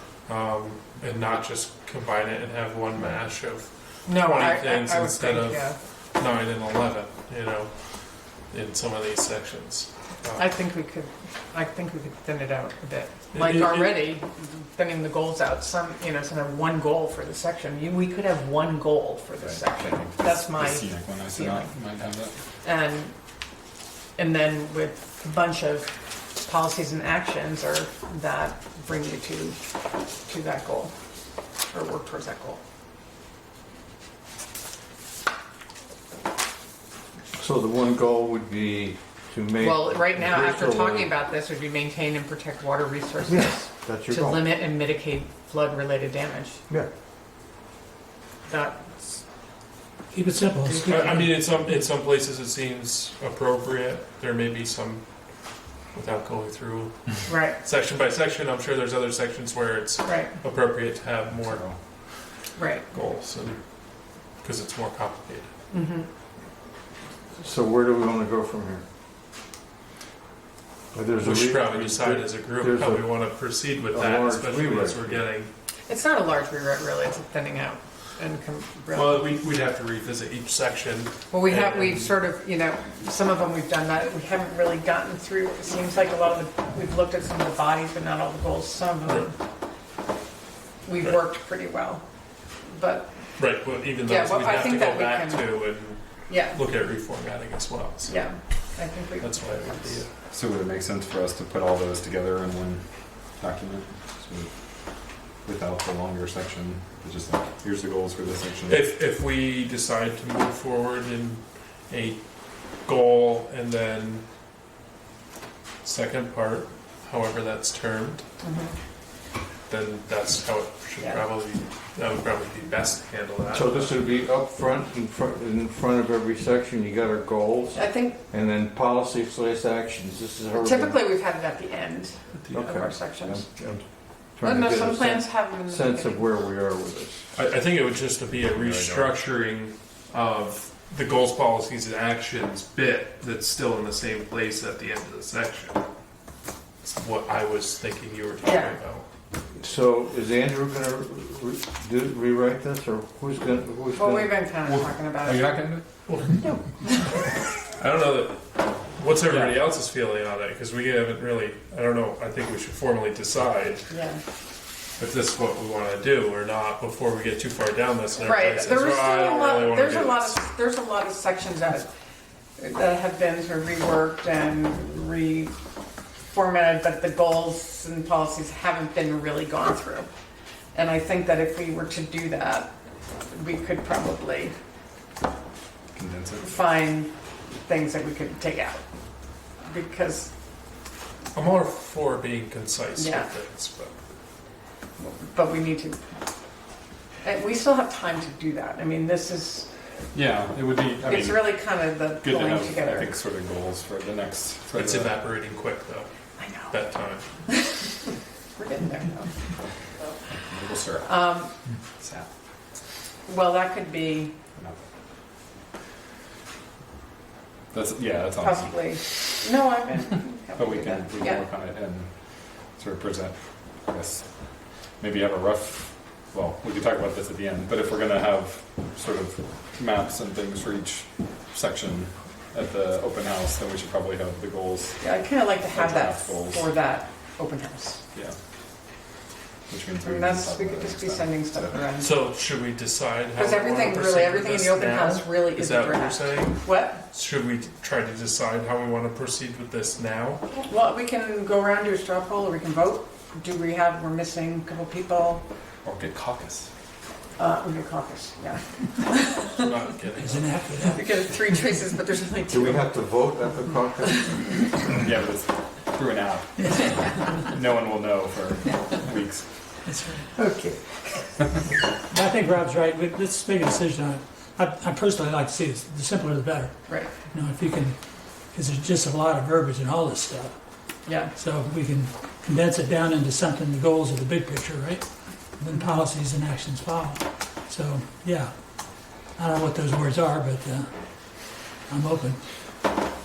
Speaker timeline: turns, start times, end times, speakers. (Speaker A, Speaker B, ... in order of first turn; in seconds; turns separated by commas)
Speaker A: 0.3-10.5, Speaker B: 4.0-5.8, Speaker B: 10.3-21.7, Speaker A: 13.3-14.1, Speaker C: 19.4-22.4, Speaker B: 22.6-23.1, Speaker B: 24.2-29.6, Speaker B: 30.3-30.9, Speaker B: 31.7-32.6, Speaker D: 37.4-41.1, Speaker B: 39.6-46.6, Speaker D: 43.2-44.5, Speaker B: 48.5-49.2, Speaker E: 50.1-51.3, Speaker B: 50.6-51.2, Speaker A: 50.8-61.8, Speaker B: 57.3-57.6, Speaker B: 60.0-60.3, Speaker C: 61.4-61.8, Speaker B: 62.5-62.9, Speaker A: 62.9-63.6, Speaker A: 64.4-65.5, Speaker B: 65.7-66.1, Speaker D: 67.4-68.8, Speaker D: 70.9-75.2, Speaker A: 71.2-75.5, Speaker B: 75.9-79.3, Speaker A: 78.9-82.2, Speaker B: 81.3-89.3, Speaker A: 89.0-89.3, Speaker B: 90.8-92.0, Speaker B: 92.6-93.1, Speaker A: 93.4-98.3, Speaker B: 94.0-95.6, Speaker B: 96.3-96.6, Speaker B: 98.0-100.0, Speaker A: 99.2-100.1, Speaker C: 100.2-108.9, Speaker A: 108.7-112.2, Speaker A: 112.8-114.2, Speaker A: 115.8-118.2, Speaker B: 118.4-118.8, Speaker A: 119.7-124.0, Speaker B: 121.0-121.2, Speaker D: 123.5-131.0, Speaker B: 127.7-128.2, Speaker B: 130.5-133.5, Speaker A: 132.3-132.7, Speaker D: 132.5-133.8, Speaker D: 134.4-137.3, Speaker B: 134.4-136.2, Speaker A: 137.3-145.8, Speaker C: 138.5-139.1, Speaker A: 146.8-149.1, Speaker B: 148.4-148.8, Speaker D: 149.6-154.4, Speaker B: 153.9-155.6, Speaker C: 154.7-156.2, Speaker A: 156.1-156.4, Speaker A: 157.8-163.8, Speaker C: 159.3-159.6, Speaker B: 163.9-164.2, Speaker A: 165.0-170.4, Speaker B: 168.2-171.9, Speaker B: 172.6-175.5, Speaker B: 176.3-180.1, Speaker B: 180.7-184.6, Speaker C: 185.9-186.6, Speaker B: 186.4-187.1, Speaker B: 187.6-188.8, Speaker B: 189.6-190.3, Speaker A: 191.3-193.9, Speaker B: 192.9-193.3, Speaker B: 195.0-196.0, Speaker B: 197.2-199.7, Speaker C: 200.1-205.2, Speaker B: 201.0-203.2, Speaker A: 204.7-206.1, Speaker B: 206.4-206.8, Speaker A: 206.7-207.3, Speaker B: 207.5-207.9, Speaker B: 208.6-209.3, Speaker C: 210.4-211.4, Speaker B: 211.0-211.6, Speaker C: 212.0-212.3, Speaker B: 213.3-214.4, Speaker C: 214.6-214.9, Speaker C: 217.7-219.0, Speaker B: 218.4-221.5, Speaker C: 220.6-222.1, Speaker C: 222.8-224.3, Speaker C: 225.0-236.8, Speaker B: 235.0-238.0, Speaker C: 239.7-241.9, Speaker B: 240.0-242.2, Speaker A: 241.9-250.6, Speaker B: 243.3-247.0, Speaker B: 250.5-255.4, Speaker C: 255.8-256.7, Speaker B: 257.4-259.8, Speaker A: 259.5-260.5, Speaker E: 260.2-261.1, Speaker B: 260.9-262.9, Speaker D: 262.5-264.8, Speaker B: 264.1-264.8, Speaker C: 264.9-269.5, Speaker E: 266.6-267.4, Speaker E: 269.8-270.3, Speaker D: 270.4-270.8, Speaker E: 272.1-276.8, Speaker B: 276.9-277.1, Speaker E: 277.3-277.9, Speaker E: 278.5-280.6, Speaker B: 281.1-281.3, Speaker E: 281.3-285.1, Speaker E: 285.6-292.4